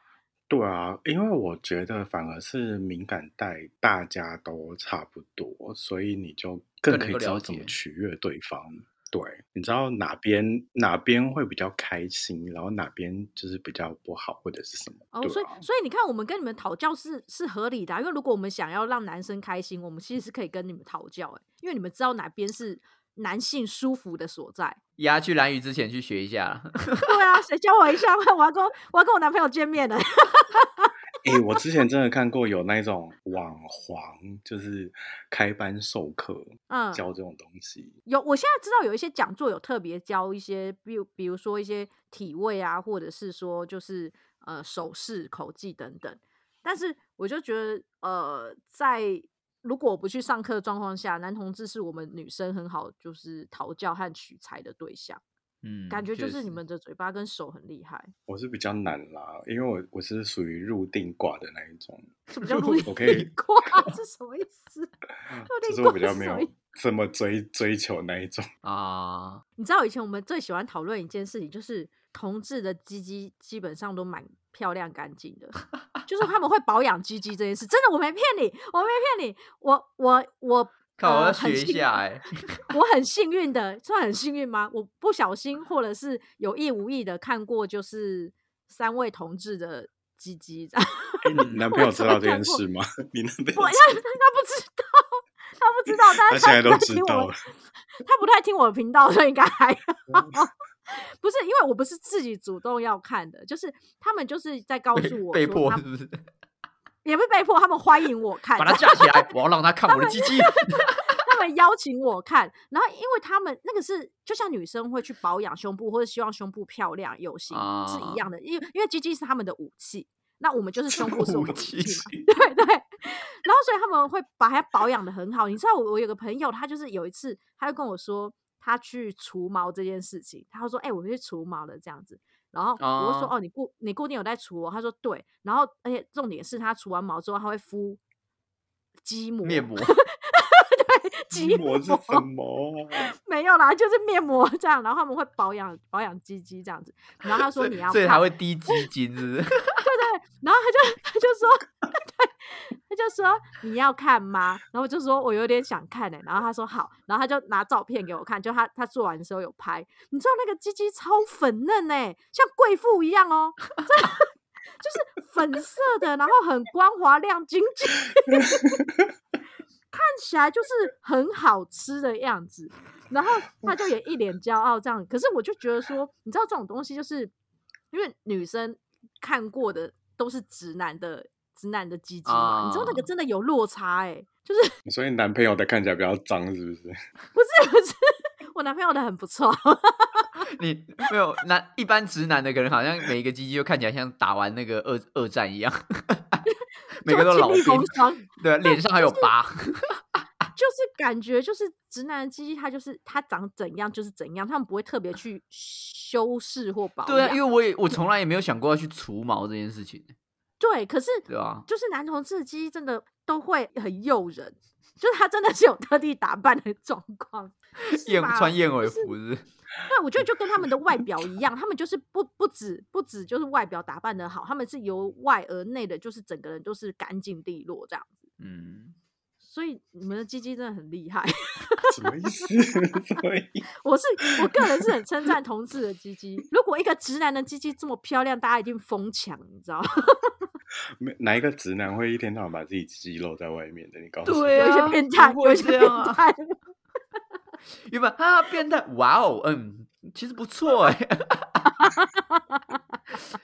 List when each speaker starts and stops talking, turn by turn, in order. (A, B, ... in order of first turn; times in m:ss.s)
0:00.5-0:15.6 A
0:06.9-0:07.7 B
0:15.1-0:24.8 C
0:25.0-0:27.1 B
0:27.0-0:31.4 C
0:31.2-0:37.9 A
0:36.7-0:37.0 C
0:38.0-0:55.2 C
0:55.6-0:56.6 B
0:55.9-0:58.1 C
0:58.3-1:02.1 A
1:02.3-1:04.9 C
1:02.4-1:03.2 B
1:02.8-1:03.3 A
1:05.3-1:08.4 A
1:05.5-1:06.5 C
1:08.6-1:09.4 B
1:09.6-1:22.0 C
1:21.0-1:22.6 B
1:22.7-1:32.6 C
1:31.2-1:34.0 A
1:31.4-1:31.6 B
1:33.5-1:37.3 C
1:36.2-1:37.3 A
1:38.0-1:45.8 C
1:44.9-1:46.2 B
1:47.0-1:49.3 C
1:48.6-1:51.0 B
1:49.9-2:18.0 C
1:57.5-1:58.2 B
2:00.9-2:02.2 B
2:12.8-2:13.3 B
2:19.0-2:22.2 C
2:19.4-2:20.0 B
2:21.3-2:23.1 A
2:22.9-2:28.8 C
2:27.4-2:29.8 B
2:29.8-2:44.3 C
2:44.8-2:48.7 C
2:48.4-2:49.1 A
2:49.9-2:57.3 C
2:57.9-3:04.7 C
3:02.2-3:03.0 B
3:04.8-3:06.9 A
3:07.3-3:10.4 C
3:10.5-3:16.4 B
3:16.5-3:19.3 C
3:17.0-3:20.2 B
3:20.6-3:27.4 C
3:27.0-3:30.1 B
3:30.6-3:39.1 C
3:31.3-3:31.6 B
3:37.9-3:39.4 B
3:39.9-3:48.2 C
3:48.4-3:49.0 B
3:49.4-3:51.9 C
3:51.9-3:53.6 A
3:53.8-4:00.3 C
4:01.0-4:04.6 A
4:04.2-4:06.2 B
4:04.6-4:06.6 C
4:07.9-4:11.7 B
4:11.8-4:12.8 C